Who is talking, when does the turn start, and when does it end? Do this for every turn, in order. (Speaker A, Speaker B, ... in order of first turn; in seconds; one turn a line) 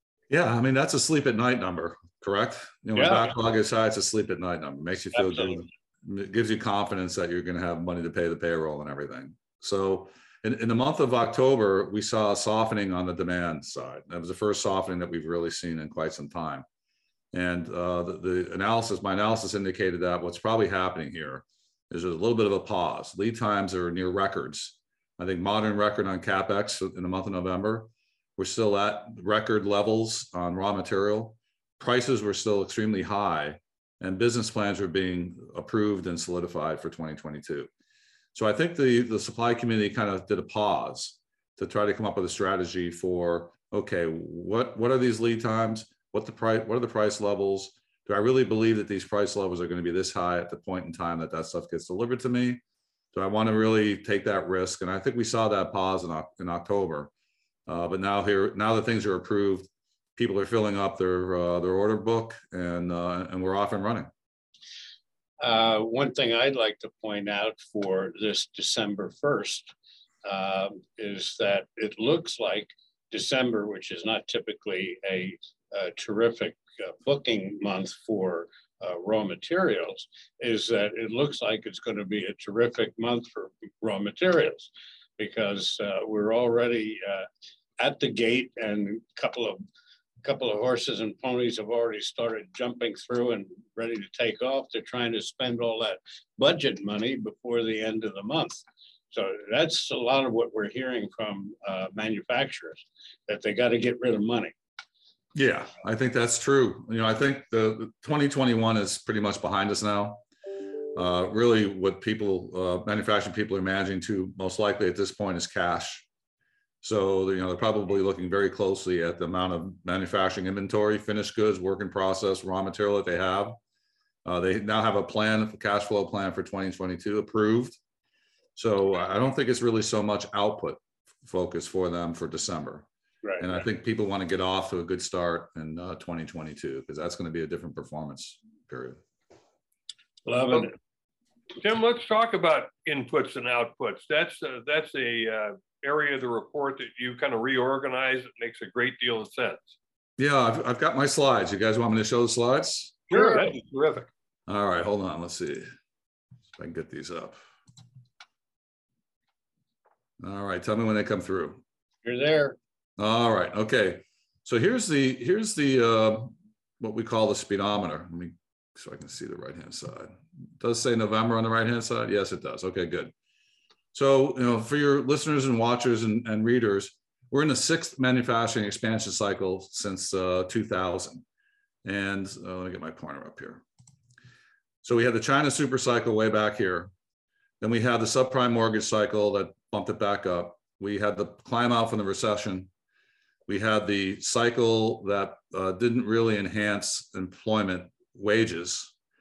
Speaker A: 0.3-16.6
Speaker B: 3.0-3.3
Speaker A: 17.3-37.7
Speaker A: 38.4-52.6
Speaker A: 53.1-57.1
Speaker A: 57.7-64.1
Speaker B: 65.4-69.7
Speaker B: 70.2-87.3
Speaker B: 87.8-89.6
Speaker B: 90.2-104.5
Speaker A: 105.3-110.2
Speaker A: 111.0-116.1
Speaker A: 116.8-123.6
Speaker A: 124.2-127.8
Speaker A: 128.6-132.9
Speaker A: 133.4-139.0
Speaker B: 140.2-140.8
Speaker C: 141.6-149.8
Speaker A: 150.2-153.0
Speaker C: 153.1-154.1
Speaker B: 153.1-153.5
Speaker A: 154.5-155.7
Speaker A: 156.6-157.4
Speaker A: 160.2-161.6
Speaker B: 162.0-162.6
Speaker A: 163.0-173.1
Speaker A: 173.9-181.2
Speaker A: 181.8-183.6
Speaker A: 184.8-186.9
Speaker A: 187.6-192.7
Speaker A: 193.5-198.9